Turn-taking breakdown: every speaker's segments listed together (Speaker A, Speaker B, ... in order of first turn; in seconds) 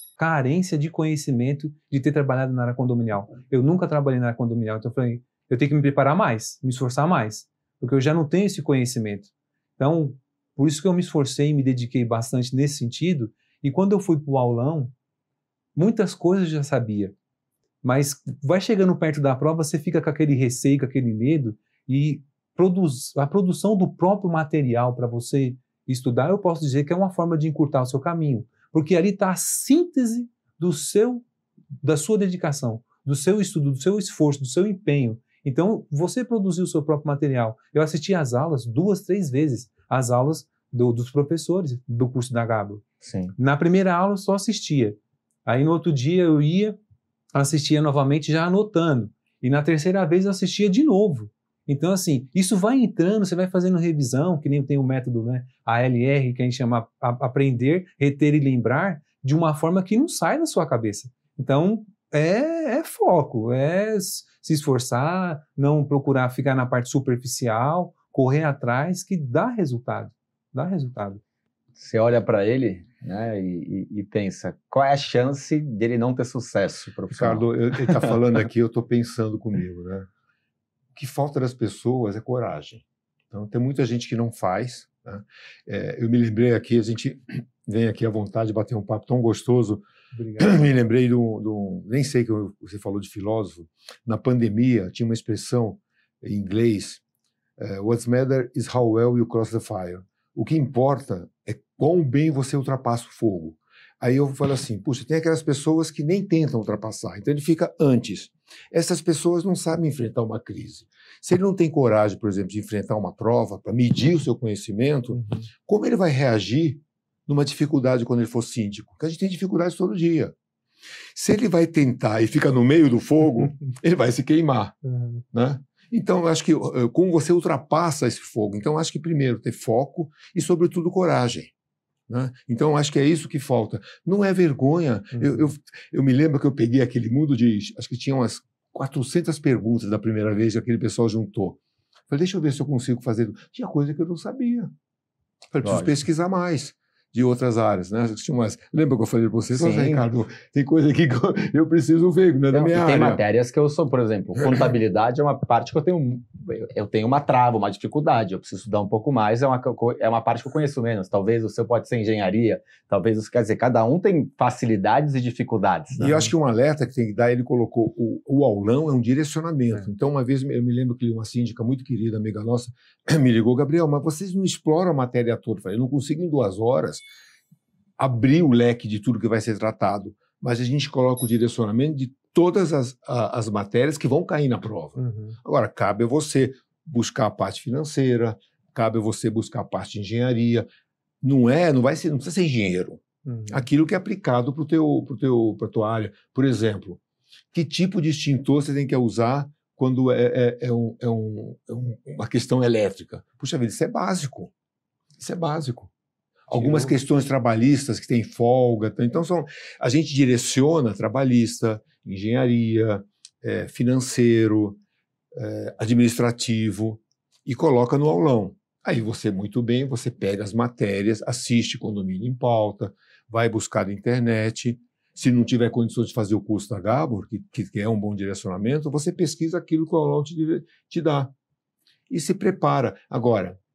Speaker A: 0.2-14.9, 15.8-17.1, 17.8-31.2, 31.8-42.8, 43.4-46.8, 47.3-71.2, 90.1-90.7, 115.1-115.5, 124.9-125.2, 135.1-135.5, 166.0-166.3, 184.9-185.4, 193.2-193.7, 206.5-207.0
Speaker B: 43.0-43.3, 71.8-78.2, 145.6-146.0, 149.5-150.1, 152.5-166.2
Speaker C: 77.1-80.1, 80.9-89.8, 90.4-97.0, 97.6-120.3, 121.2-124.8, 125.3-131.5, 132.1-144.7, 145.5-153.2, 154.4-154.7, 166.0-177.1, 178.0-190.7, 191.2-197.0, 197.5-204.5, 205.2-205.9, 206.5-214.8, 215.3-231.3, 232.1-233.6